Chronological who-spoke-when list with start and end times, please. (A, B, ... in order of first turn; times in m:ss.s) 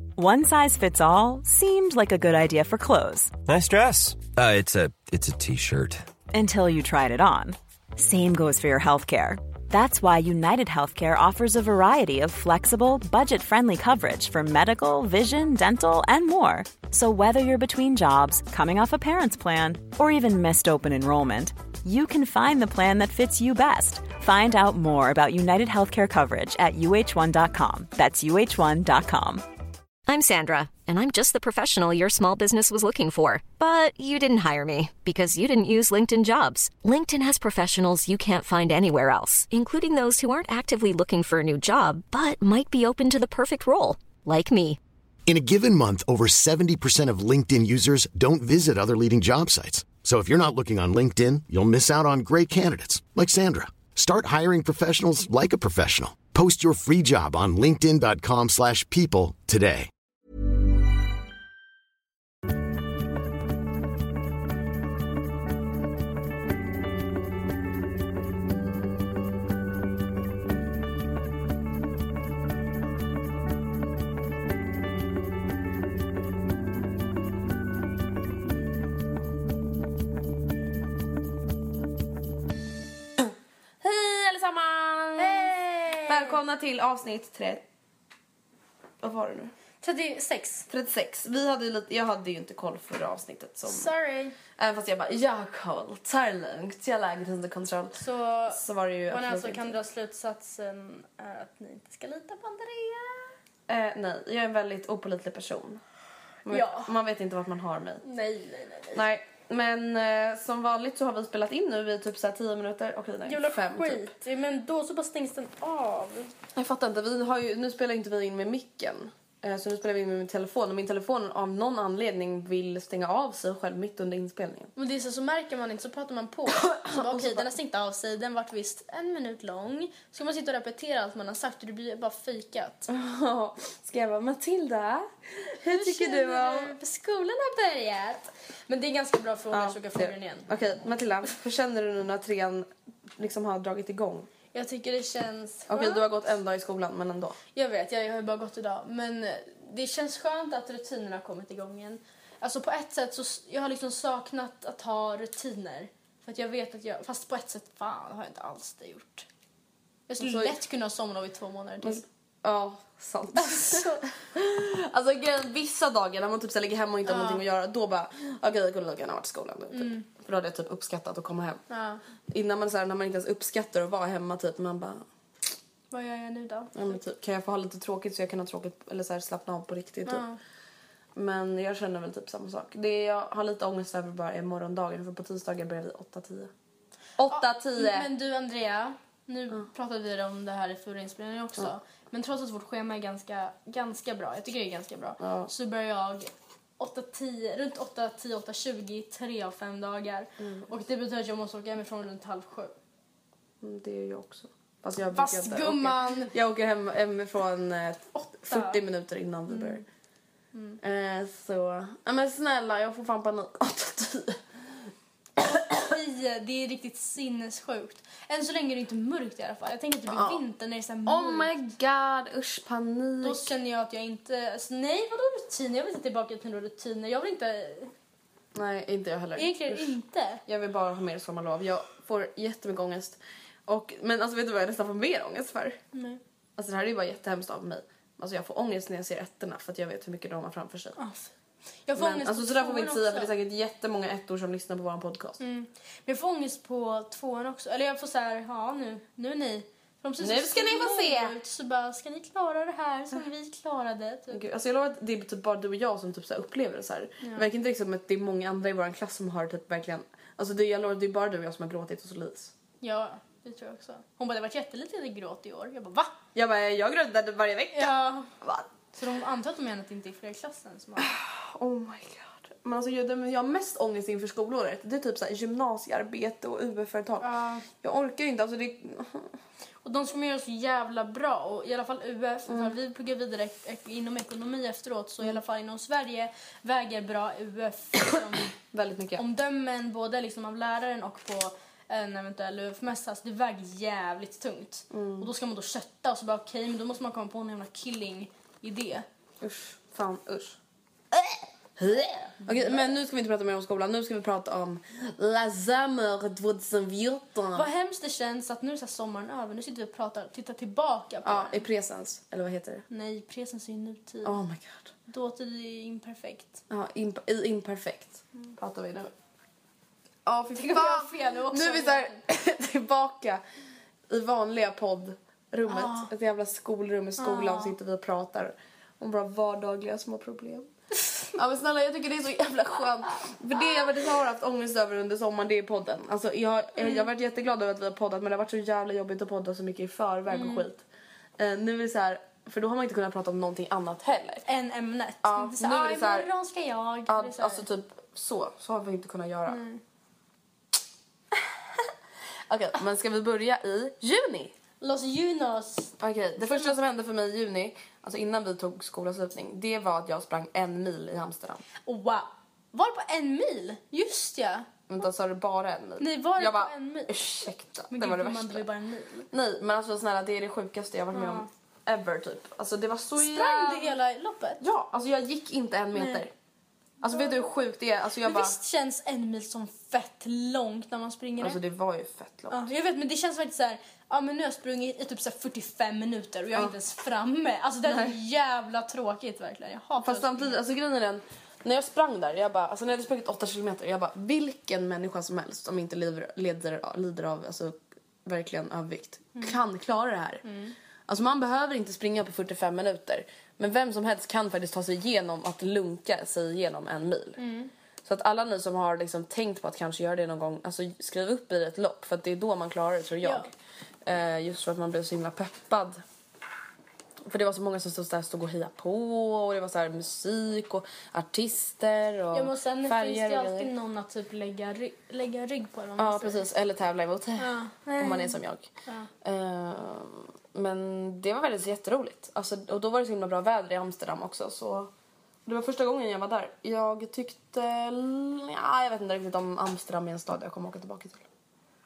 0:00.2-0:03.3 A
0:03.5-0:06.0 B
0:06.3-0:29.4 A
0:30.1-0:44.8 C
0:45.3-0:59.9 D
1:23.8-1:25.6 E
1:25.2-1:26.4 F
1:26.1-1:27.6 E
1:29.0-1:29.5 E
1:29.8-1:30.7 F
1:30.7-1:33.9 E
1:33.7-1:34.4 F
1:34.6-1:39.8 E
1:38.0-1:43.3 F
1:43.7-1:45.8 E
1:46.4-1:48.0 E
1:46.5-1:46.9 F
1:48.0-1:49.0 F
1:48.9-1:54.1 E
1:53.2-1:56.3 F
1:56.6-2:04.7 E
2:04.8-2:12.9 F
2:06.5-2:07.5 E
2:12.9-2:16.8 E
2:15.6-2:20.5 F
2:19.5-2:24.3 E
2:24.5-2:26.1 F
2:25.7-2:27.4 E
2:27.6-2:39.3 F
2:40.1-2:42.0 F
2:40.2-2:40.6 E
2:41.8-2:51.6 E
2:43.4-2:44.0 F
2:47.1-2:47.4 F
2:49.7-2:50.1 F
2:51.7-2:52.0 F
2:52.3-2:55.1 E
2:55.9-2:57.0 F
2:56.7-3:00.2 E
3:00.0-3:00.4 F
3:01.2-3:06.5 E
3:07.2-3:08.1 E
3:07.2-3:22.7 F
3:15.2-3:15.5 E
3:20.4-3:20.7 E
3:23.6-3:29.8 E
3:25.2-3:26.3 F
3:28.2-3:28.8 F
3:29.5-3:29.8 F
3:30.5-3:30.8 F
3:30.8-3:34.4 E
3:35.6-3:41.6 F
3:40.1-3:40.4 E
3:41.0-3:43.5 E
3:43.2-3:47.9 F
3:48.5-3:55.8 E
3:49.4-3:50.4 F
3:55.9-3:56.2 F
3:56.6-4:01.0 E
4:01.0-4:01.3 F
4:01.9-4:03.3 F
4:02.0-4:05.4 E
4:05.4-4:14.4 F
4:10.2-4:11.4 E
4:14.3-4:22.5 E
4:17.2-4:17.5 F
4:22.8-4:26.2 F
4:26.3-4:28.7 E
4:27.7-4:28.3 F
4:29.0-4:31.1 F
4:31.0-4:37.3 E
4:37.2-4:37.7 F
4:37.8-4:39.3 E
4:39.8-4:48.5 F
4:42.5-4:42.8 E
4:48.7-4:49.2 E
4:49.2-4:59.0 F
4:54.9-4:55.3 E
4:59.4-5:00.6 E
5:01.1-5:07.7 E
5:02.2-5:02.8 F
5:07.5-5:11.6 F
5:11.2-5:12.8 E
5:12.9-5:14.4 F
5:14.2-5:14.9 E
5:15.1-5:16.6 F
5:16.7-5:19.1 E
5:20.2-5:23.4 E
5:20.6-5:22.2 F
5:24.1-5:30.7 E
5:25.7-5:26.1 F
5:27.2-5:27.8 F
5:31.3-5:40.8 E
5:40.3-5:40.6 F
5:41.4-5:44.4 E
5:44.4-5:47.6 F
5:45.2-5:46.3 E
5:47.1-5:49.6 E
5:49.5-5:49.8 F
5:52.5-5:54.5 E
5:54.8-5:56.8 F
5:56.0-6:01.6 E
6:01.8-6:04.7 F
6:04.9-6:08.6 E
6:06.0-6:07.3 F
6:07.9-6:09.3 F
6:09.3-6:14.0 E
6:11.1-6:11.5 F
6:13.2-6:14.6 F
6:14.6-6:16.3 E
6:15.9-6:16.2 F
6:17.0-6:18.6 E
6:17.0-6:17.6 F
6:18.2-6:21.6 F
6:21.4-6:22.7 E
6:22.5-6:30.6 F
6:27.8-6:28.2 E
6:30.0-6:40.4 E
6:40.4-6:40.8 F
6:41.1-6:47.4 E
6:47.4-6:47.7 F
6:48.0-6:53.5 E
6:53.2-6:53.5 F
6:54.0-6:56.0 E
6:57.2-7:03.7 E
7:02.3-7:06.4 F
7:06.0-7:08.7 E
7:07.4-7:09.1 F
7:09.2-7:14.9 E
7:15.4-7:21.2 E